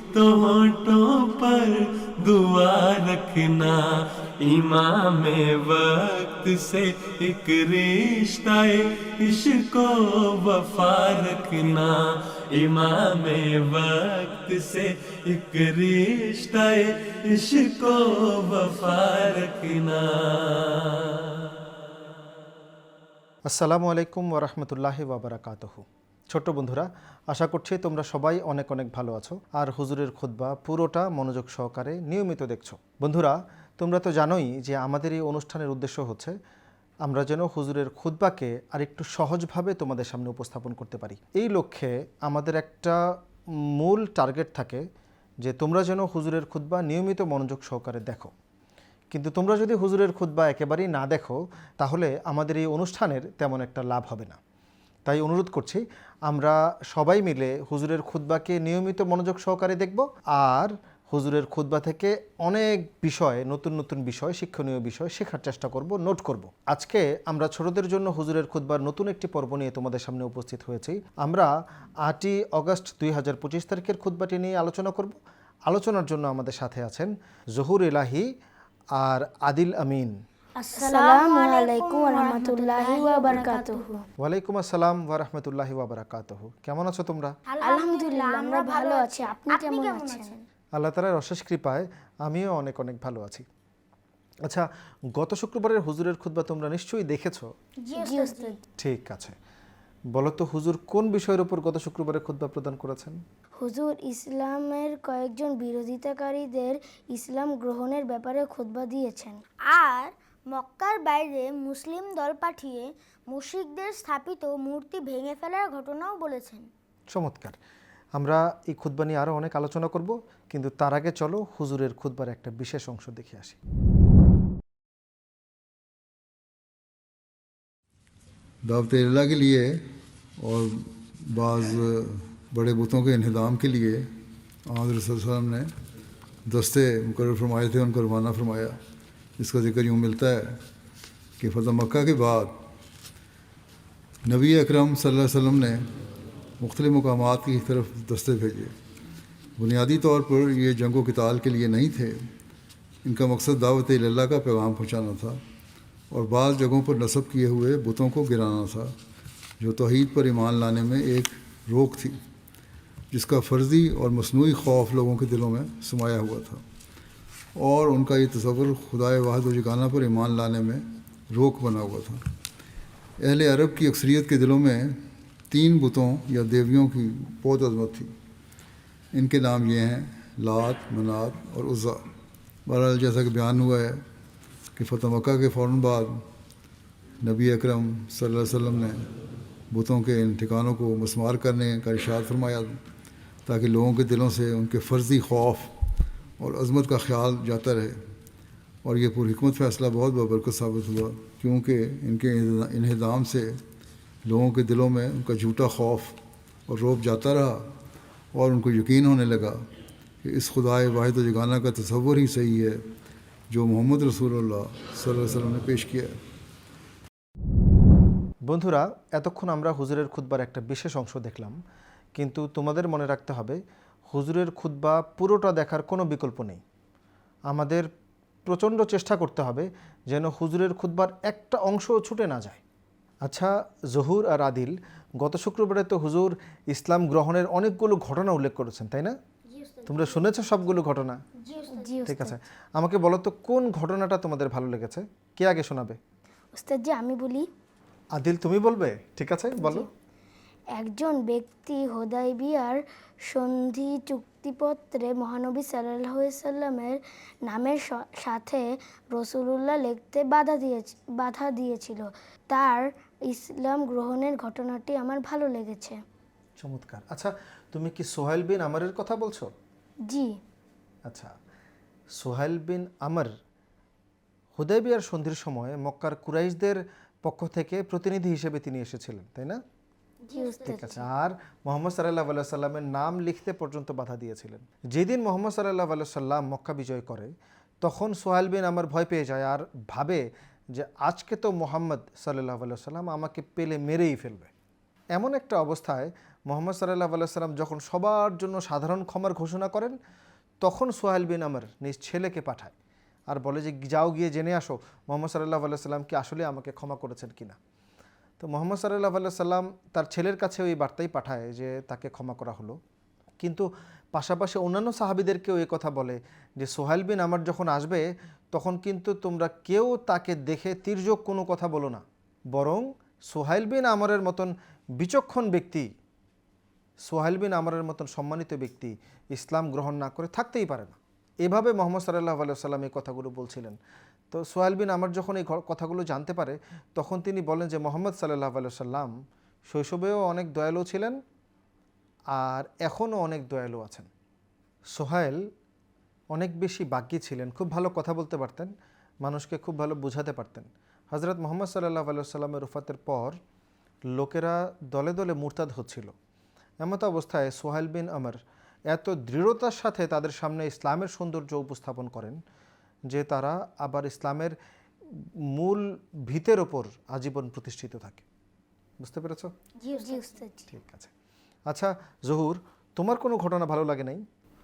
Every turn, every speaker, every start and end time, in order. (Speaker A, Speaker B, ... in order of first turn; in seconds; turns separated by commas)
Speaker A: 0.1-3.9, Speaker A: 4.4-12.0, Speaker A: 12.5-21.1, Speaker B: 23.5-36.4, Speaker B: 37.0-43.0, Speaker B: 43.8-44.8, Speaker B: 45.4-48.3, Speaker B: 49.1-54.4, Speaker B: 55.1-71.5, Speaker B: 72.1-75.2, Speaker B: 75.7-78.3, Speaker B: 79.0-80.1, Speaker C: 80.6-83.9, Speaker D: 80.8-84.0, Speaker B: 84.2-87.3, Speaker C: 87.5-90.4, Speaker D: 87.6-90.3, Speaker B: 90.8-93.5, Speaker B: 95.2-97.5, Speaker C: 97.8-98.6, Speaker D: 98.0-98.6, Speaker B: 98.8-99.3, Speaker B: 100.1-103.2, Speaker D: 103.6-109.4, Speaker C: 109.7-116.7, Speaker B: 117.1-117.6, Speaker B: 118.2-123.6, Speaker E: 128.7-129.7, Speaker E: 130.4-130.7, Speaker E: 131.3-134.1, Speaker E: 134.7-135.7, Speaker E: 136.5-138.8, Speaker E: 139.4-140.5, Speaker E: 141.4-142.5, Speaker E: 144.3-145.8, Speaker E: 146.6-148.7, Speaker E: 149.6-152.2, Speaker E: 153.1-155.4, Speaker E: 156.1-158.9, Speaker E: 159.6-162.2, Speaker E: 163.1-166.6, Speaker E: 167.6-172.2, Speaker E: 173.2-175.0, Speaker E: 175.5-178.1, Speaker E: 179.1-182.0, Speaker E: 182.7-184.0, Speaker E: 184.8-186.1, Speaker E: 187.2-189.0, Speaker E: 189.7-192.8, Speaker E: 193.5-195.7, Speaker E: 196.4-198.0, Speaker E: 198.8-203.6, Speaker E: 204.3-206.2, Speaker E: 206.7-207.6, Speaker E: 208.3-209.6, Speaker E: 210.2-212.8, Speaker E: 213.5-216.1, Speaker B: 218.5-221.6, Speaker B: 222.2-223.6, Speaker B: 224.1-226.6, Speaker B: 227.5-227.9, Speaker B: 228.5-232.6, Speaker B: 233.2-239.1, Speaker C: 239.5-240.2, Speaker B: 239.9-241.2, Speaker C: 241.4-241.9, Speaker D: 241.7-242.4, Speaker B: 242.1-246.0, Speaker D: 246.6-247.5, Speaker B: 248.2-249.9, Speaker D: 249.6-249.9, Speaker D: 250.8-266.0, Speaker B: 266.6-269.5, Speaker D: 270.1-270.4, Speaker B: 272.2-273.3, Speaker B: 274.6-279.6, Speaker C: 280.2-280.8, Speaker D: 280.4-280.9, Speaker B: 280.7-287.3, Speaker B: 287.8-290.2, Speaker B: 290.8-294.5, Speaker B: 295.2-299.9, Speaker B: 300.6-302.7, Speaker B: 303.3-307.6, Speaker B: 308.4-312.8, Speaker B: 313.4-325.9, Speaker B: 327.1-333.8, Speaker B: 334.3-339.1, Speaker B: 339.7-341.2, Speaker B: 342.4-344.1, Speaker B: 344.9-345.4, Speaker B: 346.3-348.7, Speaker B: 349.2-353.4, Speaker B: 354.1-356.1, Speaker B: 356.8-358.4, Speaker B: 358.9-362.4, Speaker B: 363.1-364.6, Speaker B: 365.6-368.2, Speaker B: 369.0-369.5, Speaker C: 369.8-370.6, Speaker D: 370.0-370.4, Speaker B: 370.7-371.1, Speaker B: 371.7-374.2